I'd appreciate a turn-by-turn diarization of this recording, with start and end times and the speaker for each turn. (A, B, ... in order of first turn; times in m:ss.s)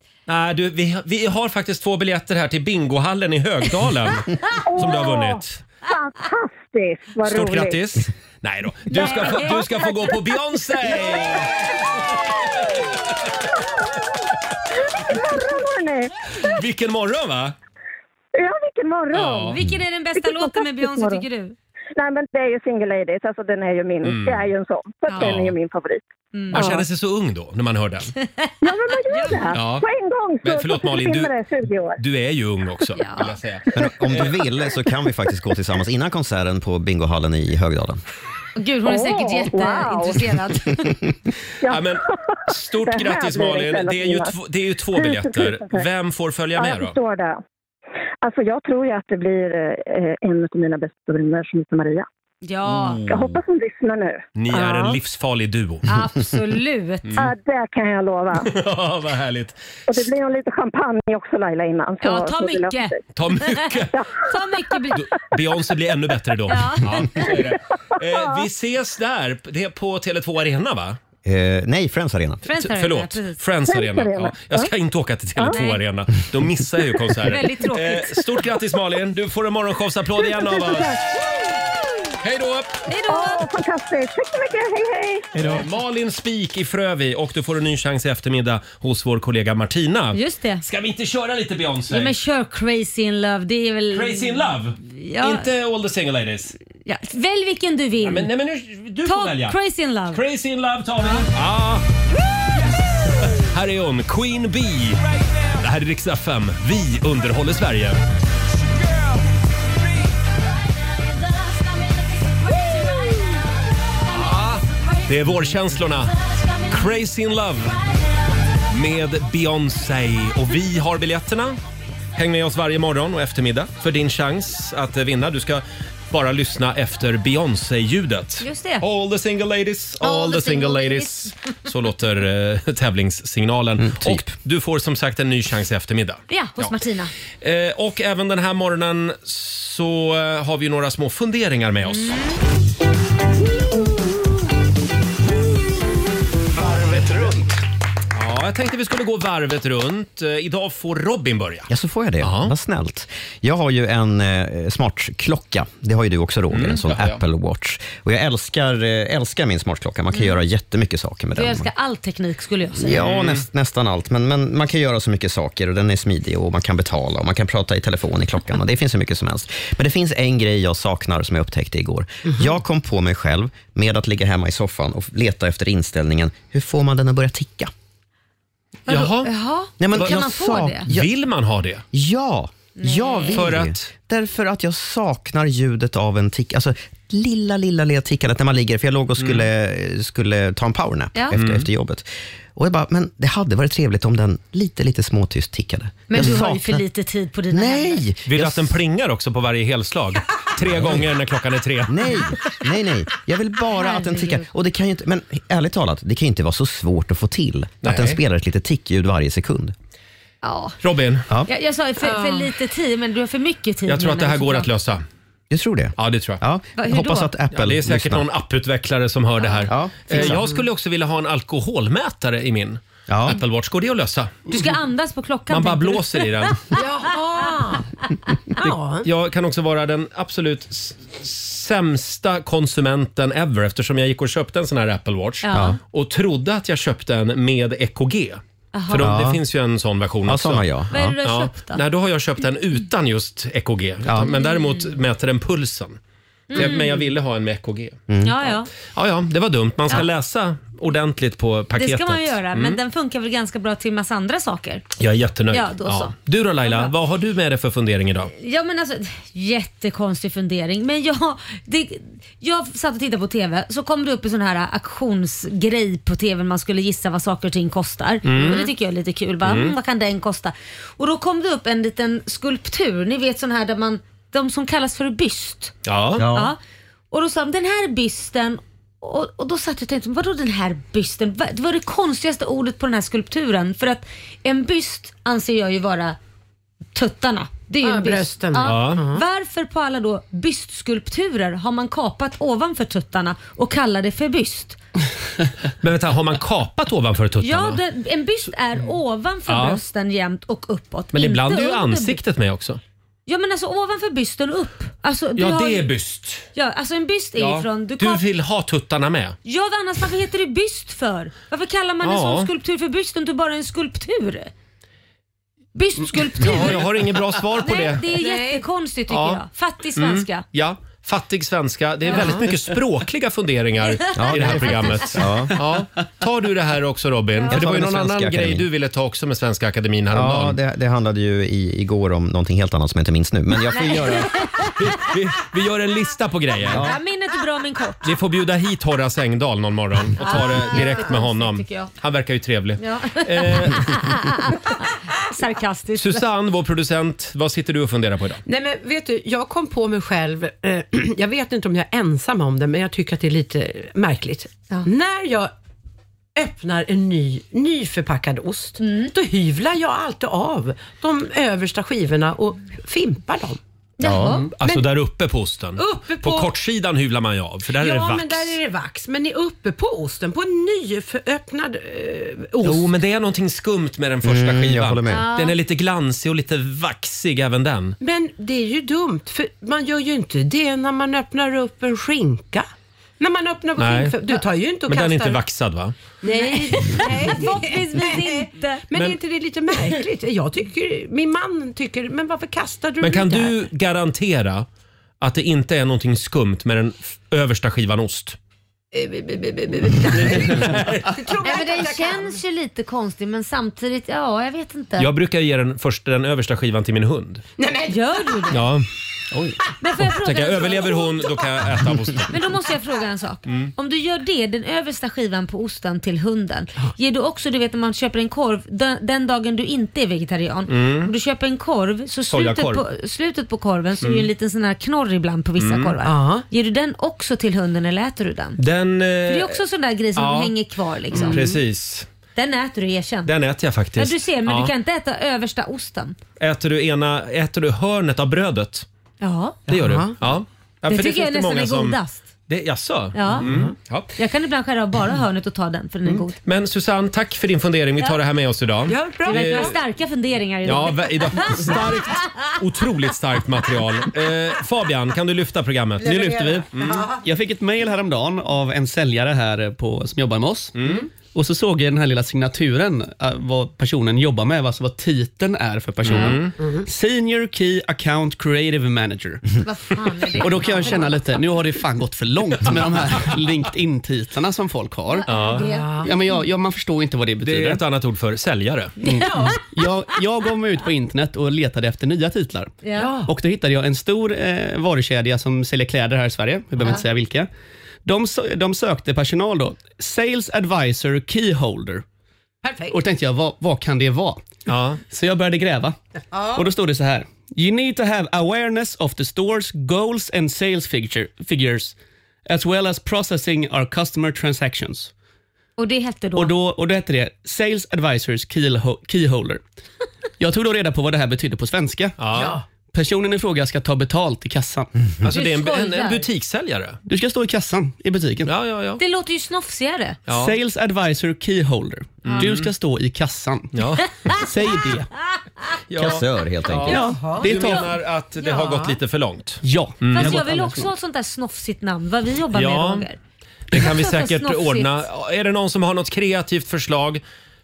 0:00.3-0:05.6 A
0:04.6-0:07.8 B
0:07.2-0:12.8 A
0:08.9-0:09.6 C
0:08.9-0:16.5 B
0:16.4-0:17.5 A
0:18.3-0:19.5 B
0:19.1-0:19.6 A
0:19.4-0:21.6 C
0:20.1-0:21.2 B
0:22.0-0:26.8 B
0:24.0-0:24.5 A
0:25.0-0:25.3 C
0:25.2-0:25.5 A
0:26.3-0:26.7 C
0:26.5-0:28.1 A
0:28.3-0:28.5 C
0:28.6-0:32.0 B
0:29.0-0:29.6 C
0:29.5-0:29.8 A
0:30.4-0:31.3 A
0:32.0-0:34.4 A
0:33.0-0:33.3 C
0:33.7-0:38.0 D
0:38.6-0:40.8 C
0:38.8-0:40.2 B
0:41.6-0:44.3 B
0:41.7-0:47.0 A
0:44.9-0:45.8 B
0:46.6-0:47.4 B
0:48.2-0:52.0 B
0:52.4-0:53.0 C
0:52.6-0:53.4 A
0:53.1-0:55.0 B
0:54.4-0:55.9 A
0:55.8-0:57.1 C
0:57.0-0:57.3 A
0:57.2-0:58.5 B
0:58.4-0:59.6 A
0:59.9-1:03.0 B
1:02.0-1:05.0 C
1:03.1-1:04.0 A
1:03.9-1:04.2 B
1:04.9-1:11.0 A
1:06.5-1:07.3 C
1:07.2-1:08.4 B
1:11.2-1:12.4 D
1:12.4-1:13.4 C
1:12.6-1:21.0 A
1:13.7-1:14.7 B
1:15.5-1:15.8 C
1:17.2-1:18.2 C
1:20.2-1:21.8 B
1:22.2-1:22.8 A
1:22.9-1:23.5 C
1:23.1-1:25.4 B
1:25.4-1:32.1 A
1:30.1-1:30.6 C
1:31.9-1:35.5 C
1:33.9-1:36.6 A
1:36.8-1:38.3 C
1:38.0-1:39.6 A
1:39.0-1:40.2 C
1:40.1-1:41.8 A
1:43.3-1:48.0 A
1:54.1-1:57.8 A
1:58.7-2:01.6 A
2:02.2-2:16.8 A
2:08.4-2:08.8 C
2:10.0-2:11.3 C
2:13.8-2:14.3 D
2:16.3-2:17.1 C
2:17.4-2:22.2 A
2:21.9-2:22.4 C
2:28.1-2:31.7 A
2:31.7-2:41.7 D
2:32.2-2:32.5 A
2:36.5-2:37.2 A
2:41.4-2:43.0 C
2:42.8-2:57.7 D
2:43.0-2:43.4 A
2:58.9-3:00.9 C
2:58.9-2:59.3 A
2:59.8-3:01.1 D
3:00.9-3:01.8 A
3:01.9-3:16.8 D
3:02.8-3:03.4 C
3:03.3-3:03.9 A
3:09.2-3:09.5 A
3:11.3-3:11.7 A
3:16.1-3:18.0 C
3:17.5-3:18.8 D
3:18.3-3:22.3 A
3:20.6-3:21.1 D
3:21.9-3:29.7 D
3:23.7-3:24.5 C
3:27.8-3:28.2 A
3:30.4-3:30.8 C
3:30.8-3:31.3 A
3:31.4-3:34.7 C
3:32.0-3:32.5 E
3:33.9-3:35.0 A
3:35.5-3:38.2 D
3:36.0-3:36.4 A
3:36.8-3:37.3 C
3:37.5-3:44.3 A
3:39.4-3:39.6 C
3:39.7-3:40.4 D
3:40.2-3:40.5 E
3:43.1-3:43.4 D
3:44.5-3:46.8 C
3:45.5-3:46.6 A
3:46.7-3:47.9 E
3:48.6-3:49.1 E
3:48.6-4:00.7 A
3:55.4-3:55.8 C
3:55.5-3:55.8 D
3:58.7-3:59.1 C
3:59.0-3:59.4 D
4:00.2-4:01.2 D
4:00.9-4:01.8 C
4:01.2-4:06.0 A
4:04.0-4:04.3 D
4:04.3-4:04.9 C
4:06.5-4:07.0 C
4:06.5-4:08.0 A
4:08.1-4:08.4 D
4:08.2-4:08.7 C
4:08.9-4:12.8 A
4:11.8-4:14.8 C
4:15.0-4:18.3 A
4:15.5-4:16.9 C
4:18.3-4:36.6 C
4:28.2-4:28.7 A
4:29.4-4:29.7 A
4:35.8-4:36.2 A
4:36.2-4:36.5 D
4:37.1-4:46.2 C
4:46.9-4:54.8 C
4:47.8-4:49.2 E
4:48.6-4:49.0 A
4:55.8-4:57.8 A
4:57.4-5:02.2 C
4:59.5-4:59.8 A
5:01.1-5:02.8 A
5:03.3-5:05.9 C
5:05.4-5:06.5 A
5:06.5-5:08.2 C
5:07.4-5:09.4 A
5:09.4-5:14.5 C
5:12.0-5:12.5 A
5:15.7-5:16.8 C
5:16.4-5:18.1 A
5:17.6-5:20.4 C
5:18.1-5:18.6 E
5:19.1-5:19.4 A
5:20.0-5:30.6 A
5:22.1-5:22.4 C
5:22.1-5:22.4 E
5:24.0-5:25.0 C
5:24.2-5:25.6 D
5:27.5-5:28.6 D
5:30.1-5:34.4 D
5:33.7-5:34.7 C
5:34.8-5:36.9 A
5:36.6-5:37.0 D
5:36.8-5:38.1 C
5:38.0-5:44.1 A
5:40.2-5:41.9 C
5:42.8-5:46.2 C
5:46.0-5:48.4 A
5:48.4-5:55.5 E
5:56.3-6:04.9 E
5:58.8-5:59.1 C
6:04.0-6:04.4 C
6:04.0-6:04.4 D
6:04.6-6:08.6 A
6:05.8-6:06.5 E
6:07.7-6:12.9 E
6:12.6-6:18.0 A
6:14.2-6:15.2 D
6:15.1-6:15.6 C
6:18.0-6:22.7 E
6:23.2-6:25.4 E
6:23.8-6:24.2 A
6:24.9-6:25.9 A
6:26.2-6:33.6 E
6:26.2-6:28.8 C
6:28.9-6:29.2 A
6:33.0-6:34.6 A
6:35.2-6:38.4 A
6:38.9-6:42.4 E
6:40.1-6:41.3 A
6:41.4-6:45.1 C
6:45.0-6:47.4 A
6:47.6-6:48.6 E
6:47.9-6:48.6 C
6:48.5-6:52.4 A
6:49.8-6:51.2 C
6:52.3-7:08.6 C
6:53.5-6:53.7 A
7:00.7-7:01.1 A
7:02.3-7:02.8 A
7:04.0-7:04.3 A
7:05.6-7:06.0 A
7:06.0-7:06.4 E
7:08.6-7:09.6 A
7:09.3-7:11.4 C
7:10.2-7:10.5 A
7:11.1-7:11.6 E
7:11.1-7:12.1 A
7:12.3-7:13.3 C
7:13.2-7:14.7 A
7:14.0-7:16.2 C
7:16.4-7:18.8 A
7:19.2-7:19.6 C
7:19.7-7:20.2 E
7:19.7-7:24.1 A
7:20.9-7:22.2 C
7:23.1-7:23.4 C
7:23.3-7:23.7 E
7:24.2-7:26.4 C
7:26.4-7:29.8 A
7:28.9-7:29.8 E
7:29.2-7:31.8 C
7:30.6-7:37.1 A
7:36.2-7:37.2 E
7:37.2-7:40.7 F
7:40.8-7:41.1 A
7:41.3-7:49.6 F
7:46.0-7:46.5 A
7:46.4-7:46.9 E
7:49.6-7:51.3 C
7:50.4-7:55.3 F
7:50.6-7:51.0 E
7:55.1-7:56.1 C
7:55.3-7:55.7 A
7:55.3-7:56.2 E
7:56.0-7:57.8 F
7:57.4-7:58.9 A
7:59.0-7:59.7 E
7:59.0-7:59.6 C
7:59.0-8:07.5 F
8:02.8-8:03.1 C
8:02.9-8:03.3 E
8:08.0-8:12.0 F
8:12.6-8:13.0 E
8:12.9-8:14.5 F
8:14.7-8:15.0 A
8:15.0-8:16.0 F
8:16.3-8:16.6 E
8:16.5-8:21.9 F
8:22.5-8:25.1 F
8:25.8-8:26.5 C
8:26.3-8:29.6 F
8:30.4-8:32.2 F
8:32.2-8:32.6 A
8:32.3-8:32.6 E
8:32.9-8:34.9 F
8:35.2-8:37.0 A
8:35.3-8:36.2 C
8:37.0-8:38.5 F
8:38.4-8:39.0 A
8:39.0-8:40.2 C
8:40.3-8:40.6 A
8:40.3-8:43.7 F
8:42.2-8:42.7 A
8:43.7-8:44.2 A
8:44.3-8:45.1 F
8:45.9-8:50.5 A
8:46.0-8:47.0 D
8:46.9-8:47.9 F
8:47.0-8:47.8 E
8:48.4-8:49.0 E
8:49.6-8:50.9 F
8:50.1-8:53.2 C
8:52.5-8:53.0 A
8:53.7-8:57.2 A
8:53.7-8:55.0 C